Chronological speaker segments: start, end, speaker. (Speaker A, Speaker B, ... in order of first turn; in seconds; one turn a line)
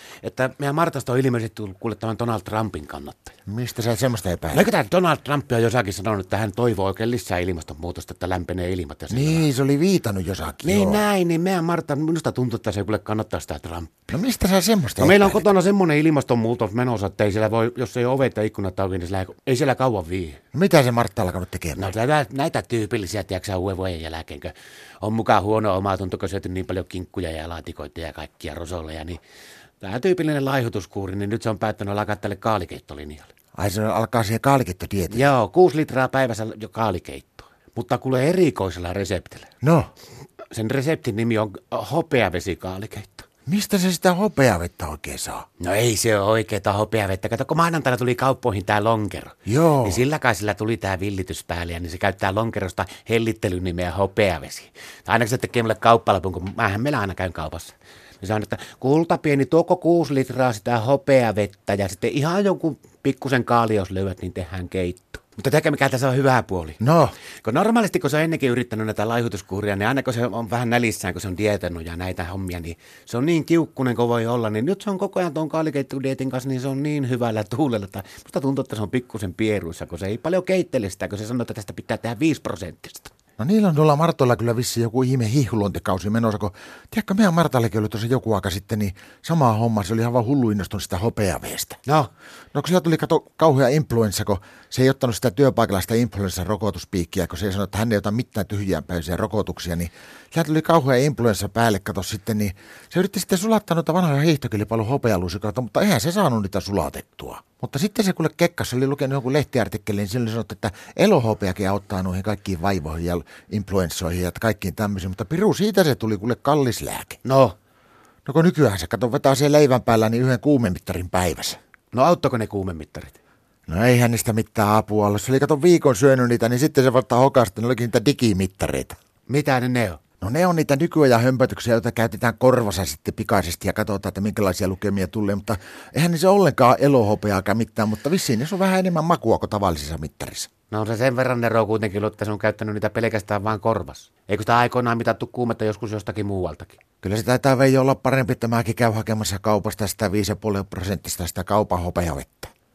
Speaker A: 0.2-3.4
Speaker B: 3.5-4.7
Speaker A: 4.5-9.5
Speaker B: 9.1-11.1
Speaker A: 10.6-14.0
Speaker B: 14.1-15.4
Speaker A: 15.0-20.4
Speaker B: 20.5-21.9
Speaker A: 21.8-29.2
Speaker A: 29.8-33.3
Speaker B: 33.5-35.2
Speaker A: 35.1-39.5
Speaker B: 39.6-39.9
Speaker A: 40.5-43.3
Speaker B: 43.5-45.5
Speaker A: 45.6-66.8
Speaker B: 49.5-50.0
Speaker B: 66.8-67.1
Speaker A: 67.4-83.1
Speaker B: 83.4-91.8
Speaker A: 91.8-92.1
Speaker B: 92.5-117.2
Speaker A: 117.2-117.5
Speaker B: 118.3-121.6
Speaker A: 121.9-123.2
Speaker B: 123.7-128.9
Speaker A: 129.3-130.0
Speaker B: 130.2-140.5
Speaker A: 140.7-146.8
Speaker B: 147.0-152.5